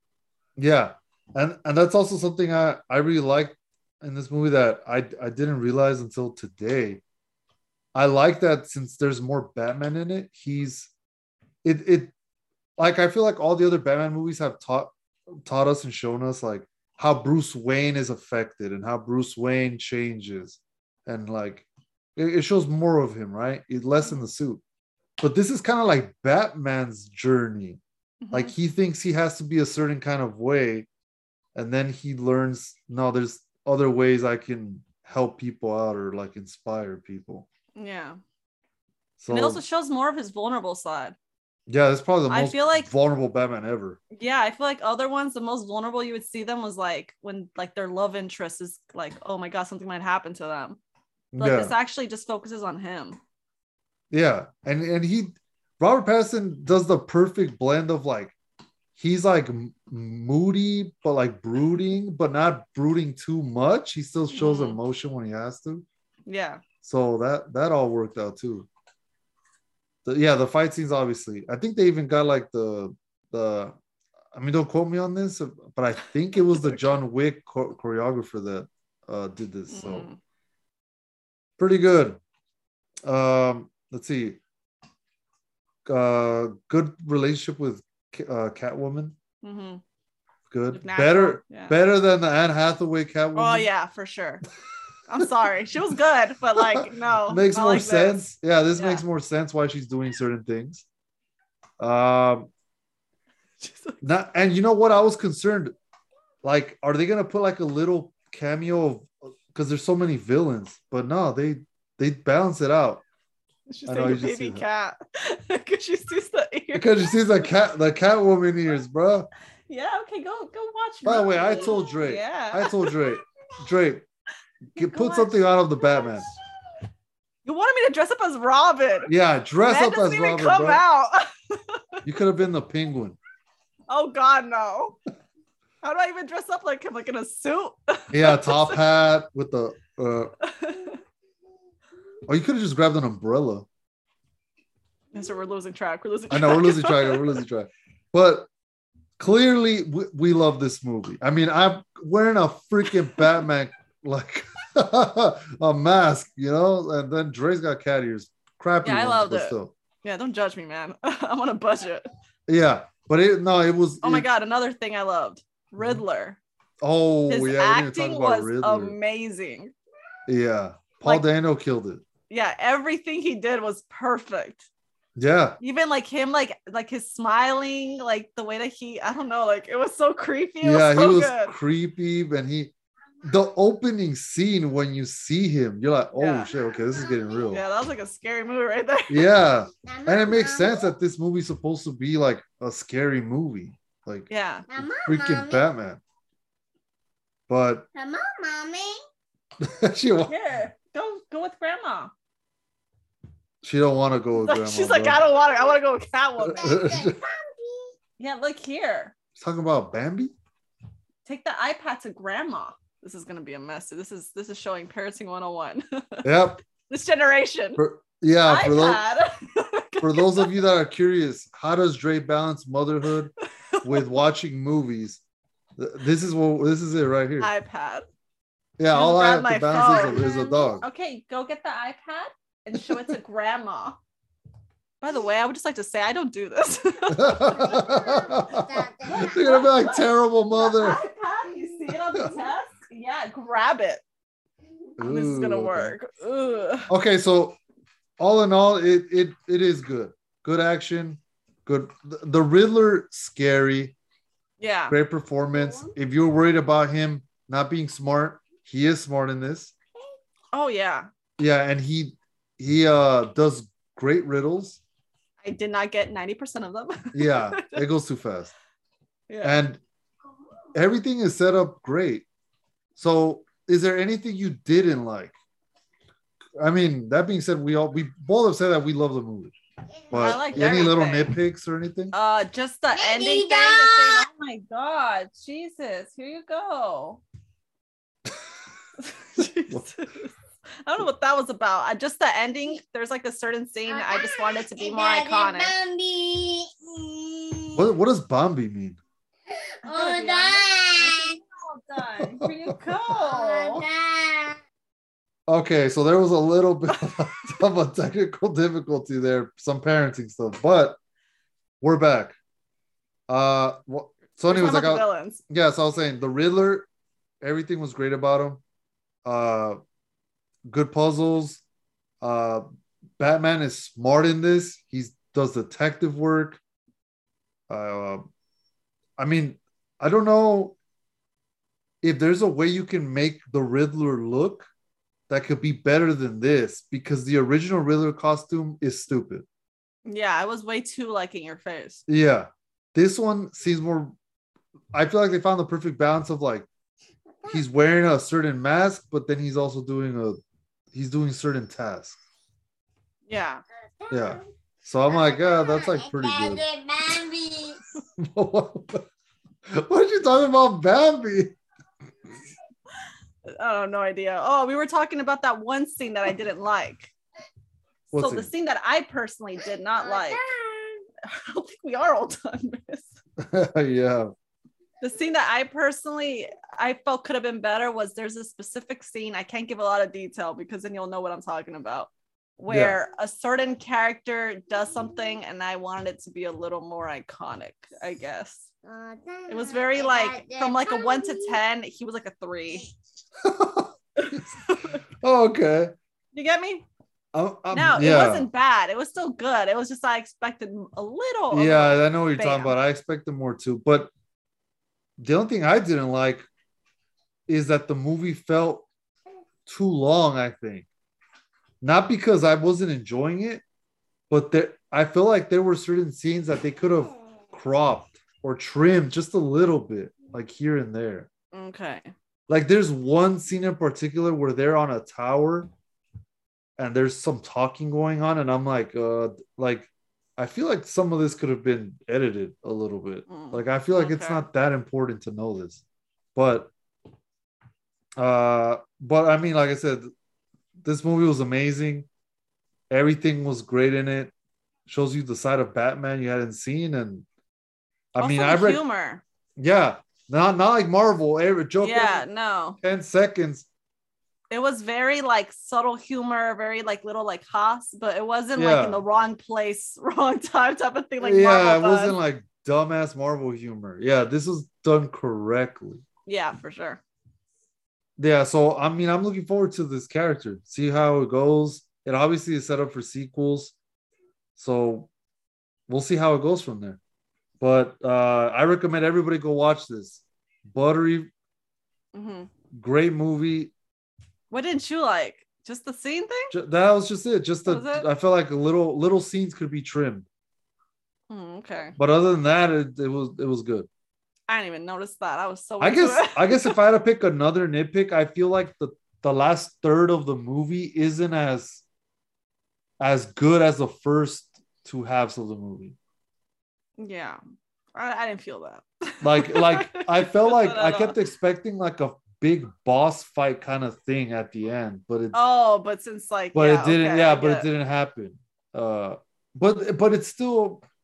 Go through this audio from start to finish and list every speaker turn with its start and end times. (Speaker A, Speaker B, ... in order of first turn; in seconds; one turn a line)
Speaker A: 0.6-7.0
Speaker A: 8.0-10.9
Speaker A: 11.6-12.1
Speaker A: 12.8-14.9
Speaker A: 15.4-24.6
Speaker A: 25.2-27.8
Speaker B: 28.2-28.5
Speaker A: 28.3-30.9
Speaker A: 31.6-37.5
Speaker B: 37.8-38.2
Speaker A: 39.2-39.6
Speaker B: 39.3-41.2
Speaker A: 41.7-44.0
Speaker B: 42.3-42.9
Speaker B: 44.1-50.8
Speaker A: 51.3-51.7
Speaker B: 51.4-53.2
Speaker A: 54.1-58.4
Speaker A: 59.0-65.8
Speaker B: 64.3-64.8
Speaker B: 66.3-66.6
Speaker A: 66.8-68.7
Speaker A: 70.0-73.8
Speaker A: 74.3-80.1
Speaker B: 76.4-76.8
Speaker B: 79.7-80.2
Speaker A: 81.6-82.2
Speaker A: 83.0-84.4
Speaker A: 85.9-89.2
Speaker B: 89.4-89.8
Speaker A: 90.5-93.7
Speaker B: 90.7-91.8
Speaker B: 93.3-94.4
Speaker B: 95.1-98.2
Speaker A: 96.6-100.8
Speaker B: 98.8-99.0
Speaker A: 101.8-102.5
Speaker B: 103.6-104.0
Speaker A: 104.0-105.7
Speaker A: 106.4-113.0
Speaker B: 113.7-117.5
Speaker A: 113.9-114.7
Speaker A: 116.7-119.3
Speaker B: 119.7-123.2
Speaker A: 121.0-124.1
Speaker B: 124.8-125.4
Speaker A: 124.8-126.3
Speaker B: 127.5-129.1
Speaker A: 129.1-130.8
Speaker B: 129.7-132.0
Speaker A: 132.1-133.2
Speaker B: 133.9-135.0
Speaker B: 135.8-138.8
Speaker A: 138.1-140.3
Speaker B: 140.4-141.0
Speaker A: 142.3-143.7
Speaker B: 145.1-147.4
Speaker A: 146.3-148.5
Speaker A: 149.2-159.7
Speaker B: 153.0-153.3
Speaker B: 158.8-162.1
Speaker A: 162.5-164.3
Speaker B: 164.0-166.4
Speaker A: 165.8-166.0
Speaker A: 166.8-169.0
Speaker B: 167.3-169.7
Speaker A: 170.3-172.0
Speaker B: 172.3-174.7
Speaker A: 175.2-175.6
Speaker B: 175.6-181.5
Speaker A: 180.6-182.7
Speaker A: 183.2-187.6
Speaker B: 186.2-186.5
Speaker C: 186.6-187.5
Speaker B: 187.5-189.3
Speaker A: 189.1-196.0
Speaker C: 189.8-190.9
Speaker B: 194.3-194.7
Speaker C: 194.7-195.6
Speaker A: 197.5-197.9
Speaker C: 197.9-199.0
Speaker A: 199.6-200.3
Speaker B: 200.3-202.1
Speaker A: 203.6-205.2
Speaker B: 204.4-206.8
Speaker A: 206.4-207.2
Speaker C: 206.6-207.9
Speaker B: 208.2-209.1
Speaker A: 209.4-210.3
Speaker B: 211.3-216.3
Speaker A: 216.2-216.6
Speaker B: 216.9-217.8
Speaker A: 217.8-219.0
Speaker B: 218.5-220.5
Speaker A: 220.0-225.2
Speaker B: 223.7-224.1
Speaker A: 225.8-227.5
Speaker B: 227.4-228.1
Speaker A: 228.8-230.8
Speaker B: 228.9-234.0
Speaker B: 235.0-238.0
Speaker A: 237.1-241.0
Speaker C: 237.6-239.7
Speaker B: 239.1-244.0
Speaker A: 245.0-245.9
Speaker B: 245.0-246.9
Speaker A: 246.9-247.6
Speaker A: 248.2-254.0
Speaker B: 254.6-255.0
Speaker A: 254.9-259.7
Speaker B: 260.5-261.1
Speaker A: 261.4-264.8
Speaker B: 265.4-267.8
Speaker A: 267.1-268.5
Speaker B: 269.3-269.6
Speaker A: 269.4-269.8
Speaker A: 270.8-272.3
Speaker A: 273.0-275.4
Speaker A: 276.6-279.5
Speaker C: 280.0-280.9
Speaker A: 280.1-282.1
Speaker B: 280.1-281.4
Speaker B: 282.1-287.2
Speaker C: 282.9-284.2
Speaker B: 289.0-295.8
Speaker C: 293.9-297.9
Speaker A: 297.8-299.0
Speaker C: 299.5-301.4
Speaker B: 299.9-303.9
Speaker A: 302.2-302.8
Speaker C: 303.3-304.6
Speaker A: 305.5-311.0
Speaker A: 311.8-312.4
Speaker A: 313.3-316.9
Speaker B: 314.5-315.4
Speaker A: 317.4-318.6
Speaker A: 319.2-319.8
Speaker A: 320.7-321.6
Speaker A: 322.2-322.6
Speaker A: 323.2-326.6
Speaker A: 327.7-328.3
Speaker A: 329.2-330.8
Speaker A: 332.0-334.7
Speaker A: 335.3-339.4
Speaker B: 340.1-342.0
Speaker A: 342.1-344.2
Speaker A: 344.9-346.7
Speaker A: 347.5-350.4
Speaker A: 350.9-352.2
Speaker B: 353.3-353.6
Speaker C: 354.0-354.4
Speaker A: 354.1-356.6
Speaker C: 355.1-357.8
Speaker A: 358.2-359.1
Speaker A: 359.7-361.6
Speaker B: 363.5-367.1
Speaker B: 368.1-370.5
Speaker A: 368.1-368.5
Speaker C: 370.0-371.0
Speaker B: 371.2-373.2
Speaker A: 373.4-374.3
Speaker B: 375.0-388.7
Speaker A: 382.7-383.0
Speaker C: 388.8-391.6
Speaker B: 389.5-392.9
Speaker A: 393.4-395.9
Speaker B: 394.2-395.0
Speaker B: 396.3-396.9
Speaker A: 397.3-398.5
Speaker B: 397.7-402.8
Speaker A: 401.5-404.1
Speaker A: 405.2-406.5
Speaker A: 407.5-408.9
Speaker A: 409.7-410.9
Speaker A: 411.8-413.6
Speaker A: 414.3-421.3
Speaker B: 421.5-422.1
Speaker A: 422.5-425.7
Speaker A: 426.8-435.8
Speaker B: 433.3-434.5
Speaker A: 436.4-436.7
Speaker A: 438.2-440.1
Speaker A: 440.8-442.1
Speaker A: 442.9-444.3
Speaker A: 444.9-447.3
Speaker A: 448.1-448.8
Speaker B: 448.2-449.2
Speaker A: 449.6-452.3
Speaker B: 451.8-452.8
Speaker A: 452.8-453.7
Speaker B: 454.5-462.2
Speaker A: 458.6-459.0
Speaker A: 461.2-466.0
Speaker B: 466.3-467.0
Speaker A: 468.2-473.8
Speaker A: 474.6-475.1
Speaker A: 475.9-477.0
Speaker A: 477.6-481.3
Speaker B: 482.1-482.5
Speaker A: 482.7-483.7
Speaker B: 484.5-486.5
Speaker A: 486.5-490.3
Speaker B: 487.7-488.1
Speaker B: 491.3-492.0
Speaker A: 492.0-493.9
Speaker B: 494.5-496.8
Speaker A: 495.8-501.8
Speaker A: 503.0-506.0
Speaker B: 507.0-507.4
Speaker B: 507.9-511.2
Speaker A: 509.2-515.4
Speaker B: 515.3-517.7
Speaker A: 516.5-520.8